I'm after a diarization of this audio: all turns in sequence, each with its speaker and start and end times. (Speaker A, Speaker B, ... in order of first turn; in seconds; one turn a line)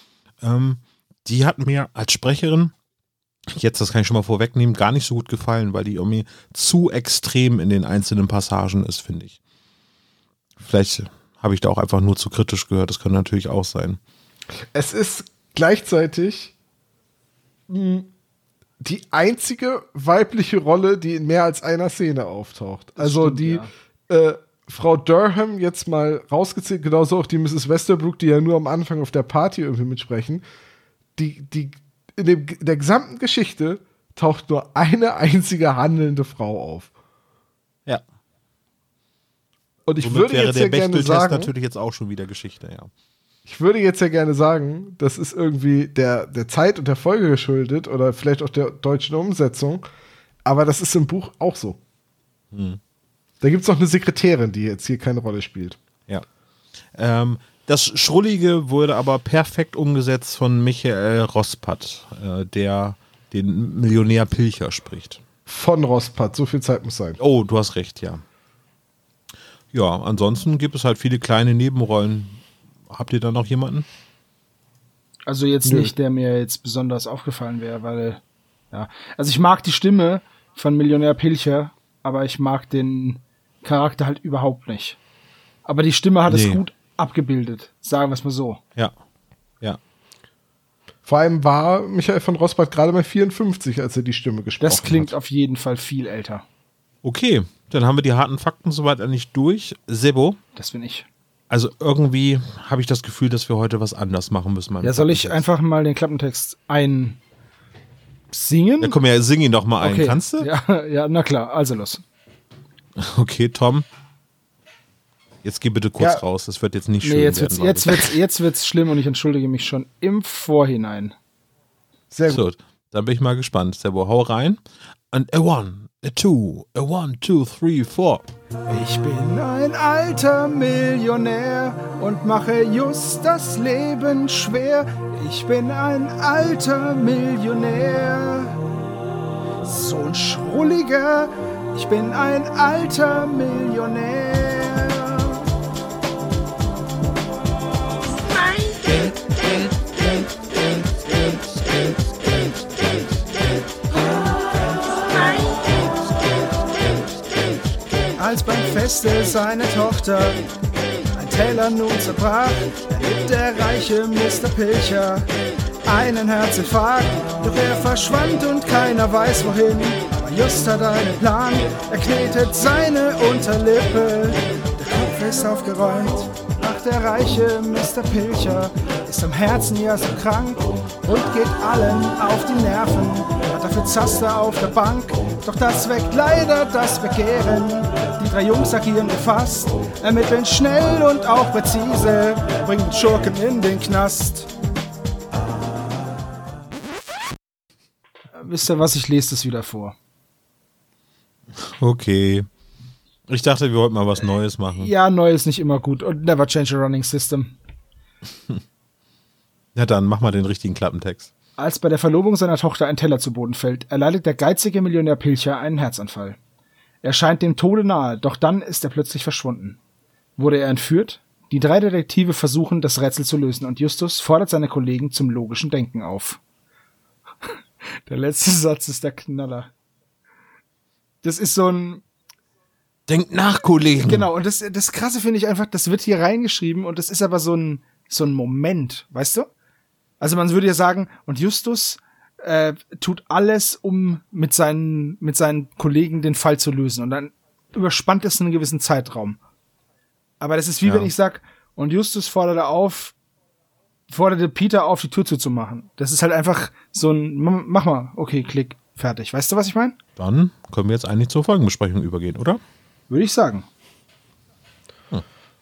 Speaker A: 0.4-2.7
Speaker A: 3.5-9.4
Speaker A: 10.6-14.0
Speaker B: 14.7-16.5
Speaker B: 17.7-18.1
Speaker B: 18.8-30.4
Speaker C: 23.0-23.7
Speaker B: 31.2-36.9
Speaker B: 39.9-41.5
Speaker A: 40.0-42.9
Speaker B: 43.5-49.8
Speaker B: 50.4-51.8
Speaker A: 52.5-52.8
Speaker B: 53.4-55.8
Speaker A: 57.0-65.2
Speaker B: 65.5-67.2
Speaker A: 67.2-68.2
Speaker A: 69.7-73.8
Speaker C: 75.3-78.2
Speaker B: 75.6-75.9
Speaker C: 78.7-85.0
Speaker C: 85.7-88.6
Speaker A: 86.3-86.6
Speaker B: 91.0-95.1
Speaker C: 94.6-96.4
Speaker A: 97.0-100.4
Speaker C: 100.5-101.0
Speaker A: 101.5-105.4
Speaker C: 104.8-107.2
Speaker C: 108.3-109.0
Speaker A: 108.8-110.5
Speaker C: 109.8-112.0
Speaker A: 113.0-113.8
Speaker A: 115.4-118.1
Speaker C: 117.0-121.1
Speaker B: 122.1-122.4
Speaker A: 122.3-128.2
Speaker C: 128.7-138.6
Speaker C: 139.6-145.4
Speaker C: 148.4-149.1
Speaker C: 155.1-155.6
Speaker C: 158.2-160.4
Speaker C: 161.2-165.3
Speaker C: 165.8-194.5
Speaker C: 198.3-199.9
Speaker A: 201.6-202.5
Speaker A: 203.3-204.9
Speaker C: 204.8-207.5
Speaker A: 209.8-211.3
Speaker C: 211.6-216.4
Speaker C: 217.0-219.8
Speaker C: 220.4-226.4
Speaker C: 228.1-229.7
Speaker C: 231.2-232.0
Speaker A: 233.1-234.3
Speaker C: 234.0-239.5
Speaker C: 240.2-249.4
Speaker C: 250.4-253.1
Speaker A: 250.8-251.1
Speaker C: 254.1-260.0
Speaker A: 260.2-262.6
Speaker C: 263.1-263.6